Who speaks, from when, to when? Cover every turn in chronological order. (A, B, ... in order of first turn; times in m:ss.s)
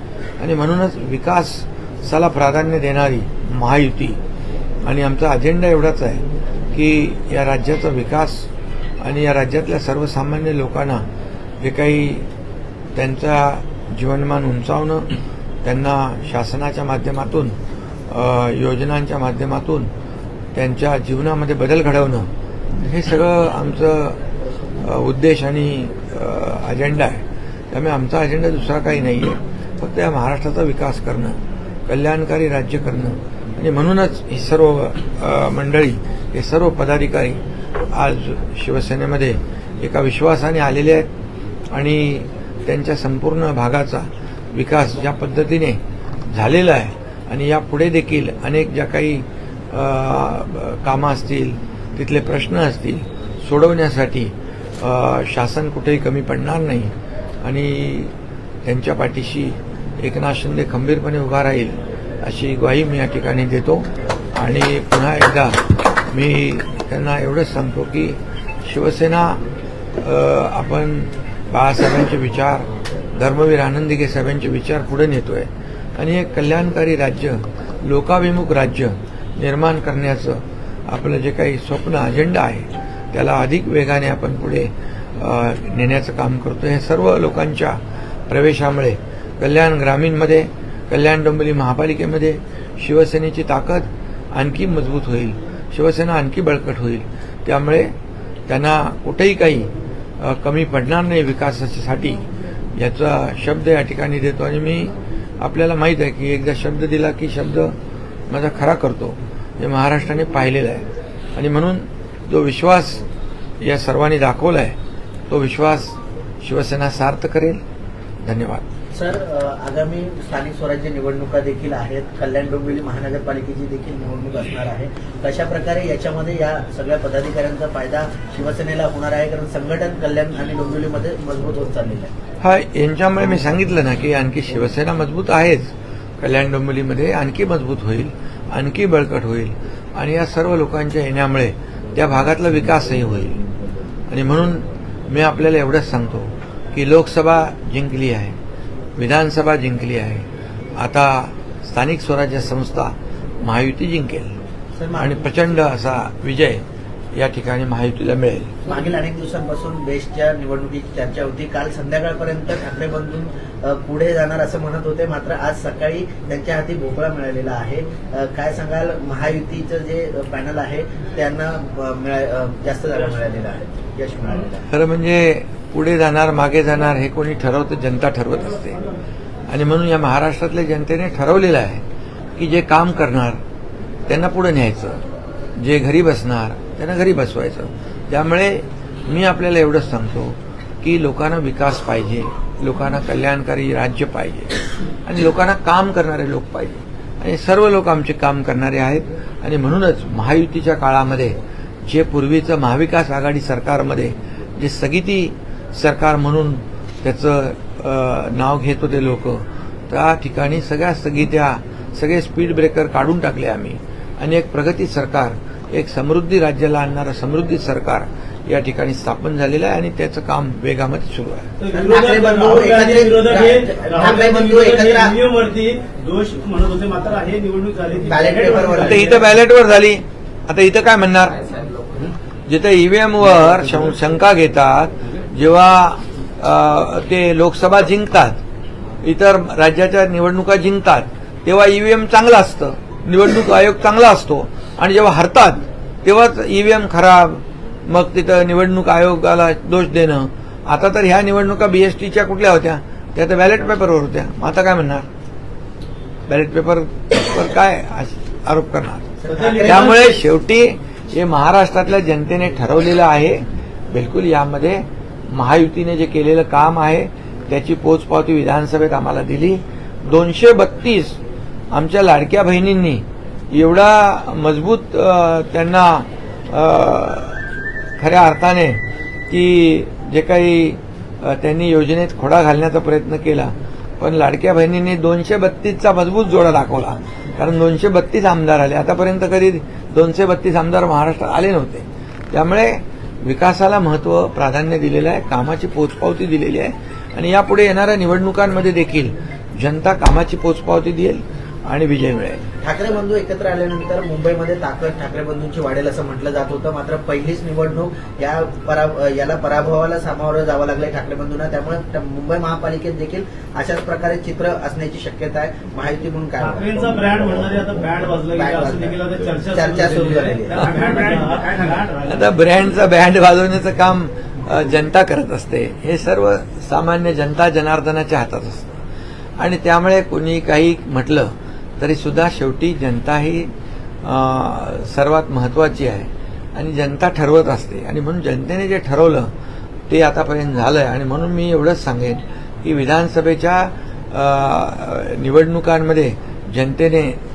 0:00.4-0:04.2 A
0:04.8-0:08.5 A
0:09.0-0:11.0 A
0:11.6-0:12.3 A
0:12.9-0:17.6 A
0:18.1-0:19.9 A
0:20.5-0:24.2 A
0:24.8-0:41.1 A
0:41.7-0:56.9 A
0:57.4-0:58.1 A
0:58.6-1:09.4 A
1:10.0-1:37.9 A
1:38.5-1:47.7 A
1:48.3-1:53.0 A
1:53.6-1:54.8 A
1:55.3-1:57.6 A
1:58.2-1:58.6 A
1:58.9-2:12.1 B
2:12.4-2:23.4 A
2:24.1-2:28.4 A
2:29.0-2:34.3 A
2:34.8-2:35.2 B
2:35.0-2:38.6 A
2:38.6-2:54.6 B
2:54.7-2:58.8 A
2:59.5-3:01.8 A
3:02.4-3:03.4 A
3:04.1-3:05.0 A
3:05.6-3:41.5 A
3:41.6-3:49.3 C
3:41.7-3:45.2 B
3:48.1-3:49.0 B
3:48.8-3:51.5 A
3:52.5-3:58.4 A
3:59.0-4:15.1 A
4:16.3-4:31.2 A
4:19.2-4:20.0 B
4:19.3-4:20.1 C
4:31.7-4:37.4 A
4:38.0-5:02.4 A
5:02.6-5:17.0 B
5:16.4-5:22.3 C
5:18.3-5:19.0 B
5:19.5-5:21.1 B
5:22.0-5:28.8 A
5:29.4-5:33.5 A
5:34.0-5:39.3 A
5:39.9-5:47.2 A